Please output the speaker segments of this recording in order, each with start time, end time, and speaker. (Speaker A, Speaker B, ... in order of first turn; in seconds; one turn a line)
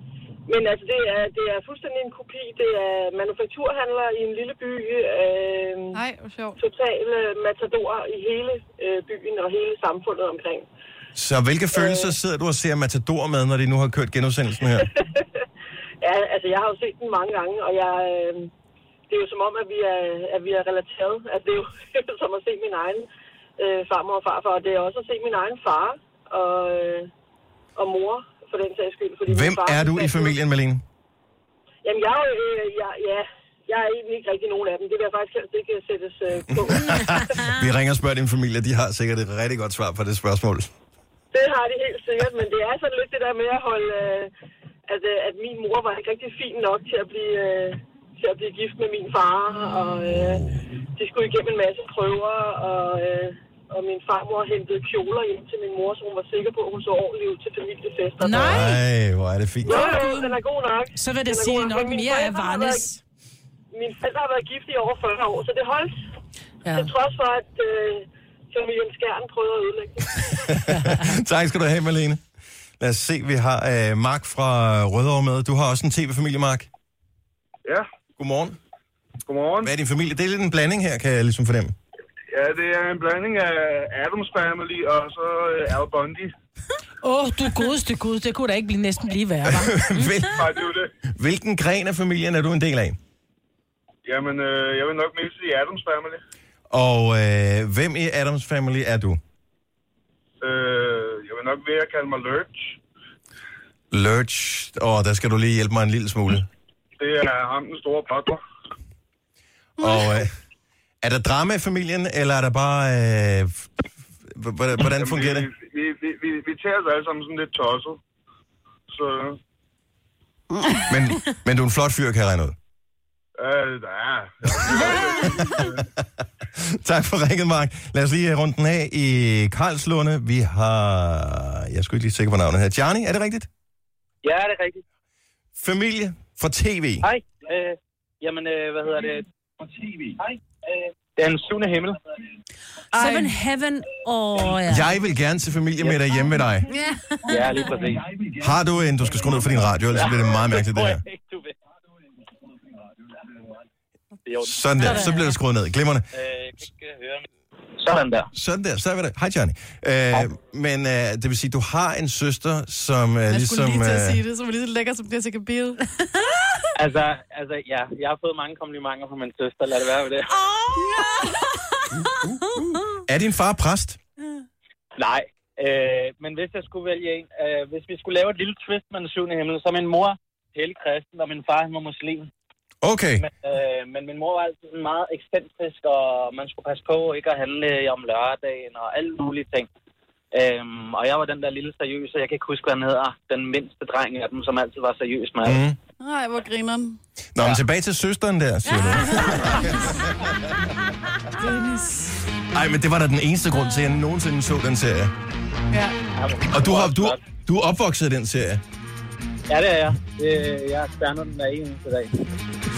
Speaker A: 0.5-6.0
Speaker B: 5.9-6.6
Speaker A: 6.6-10.7
Speaker C: 11.2-14.9
Speaker A: 11.7-12.1
Speaker A: 16.0-18.5
Speaker A: 19.1-23.1
Speaker A: 23.6-27.1
Speaker A: 27.8-30.4
Speaker C: 29.3-30.8
Speaker A: 31.8-37.5
Speaker C: 36.6-40.7
Speaker A: 41.3-44.3
Speaker A: 44.9-58.6
Speaker C: 50.0-50.6
Speaker D: 58.2-58.8
Speaker C: 58.3-60.0
Speaker A: 59.6-62.9
Speaker D: 59.7-60.4
Speaker D: 60.9-63.0
Speaker A: 63.7-66.0
Speaker D: 66.7-66.9
Speaker A: 66.7-70.7
Speaker C: 70.5-72.2
Speaker C: 72.8-76.7
Speaker C: 78.2-78.6
Speaker E: 79.2-79.7
Speaker C: 79.6-81.8
Speaker E: 82.3-86.3
Speaker D: 87.0-89.8
Speaker C: 89.5-90.5
Speaker F: 90.0-90.3
Speaker E: 90.3-90.9
Speaker C: 91.0-93.0
Speaker E: 94.0-96.2
Speaker C: 96.7-99.2
Speaker E: 100.4-102.8
Speaker C: 103.9-106.5
Speaker E: 107.0-108.4
Speaker C: 109.8-110.4
Speaker C: 111.0-113.7
Speaker C: 114.2-115.5
Speaker E: 114.9-118.0
Speaker E: 118.9-119.4
Speaker B: 120.5-120.9
Speaker C: 120.9-122.6
Speaker E: 123.4-125.8
Speaker C: 124.6-133.5
Speaker G: 134.2-134.8
Speaker C: 135.6-137.1
Speaker G: 137.0-139.3
Speaker G: 141.2-142.0
Speaker F: 142.9-144.9
Speaker C: 144.7-146.7
Speaker F: 146.7-147.6
Speaker G: 147.2-148.1
Speaker C: 148.4-151.0
Speaker G: 149.9-151.5
Speaker G: 154.3-154.6
Speaker C: 154.4-156.1
Speaker D: 154.8-155.3
Speaker G: 156.1-157.2
Speaker G: 157.8-158.3
Speaker C: 158.3-164.2
Speaker B: 163.3-165.8
Speaker G: 166.8-170.4
Speaker F: 170.4-171.1
Speaker B: 170.8-171.3
Speaker C: 173.0-174.0
Speaker G: 175.0-182.3
Speaker C: 182.8-183.3
Speaker G: 183.2-189.7
Speaker G: 190.3-195.6
Speaker C: 195.4-195.8
Speaker B: 196.0-197.0
Speaker C: 197.3-200.1
Speaker D: 201.4-201.8
Speaker C: 202.5-205.1
Speaker G: 206.2-207.2
Speaker C: 206.5-208.6
Speaker G: 209.5-212.2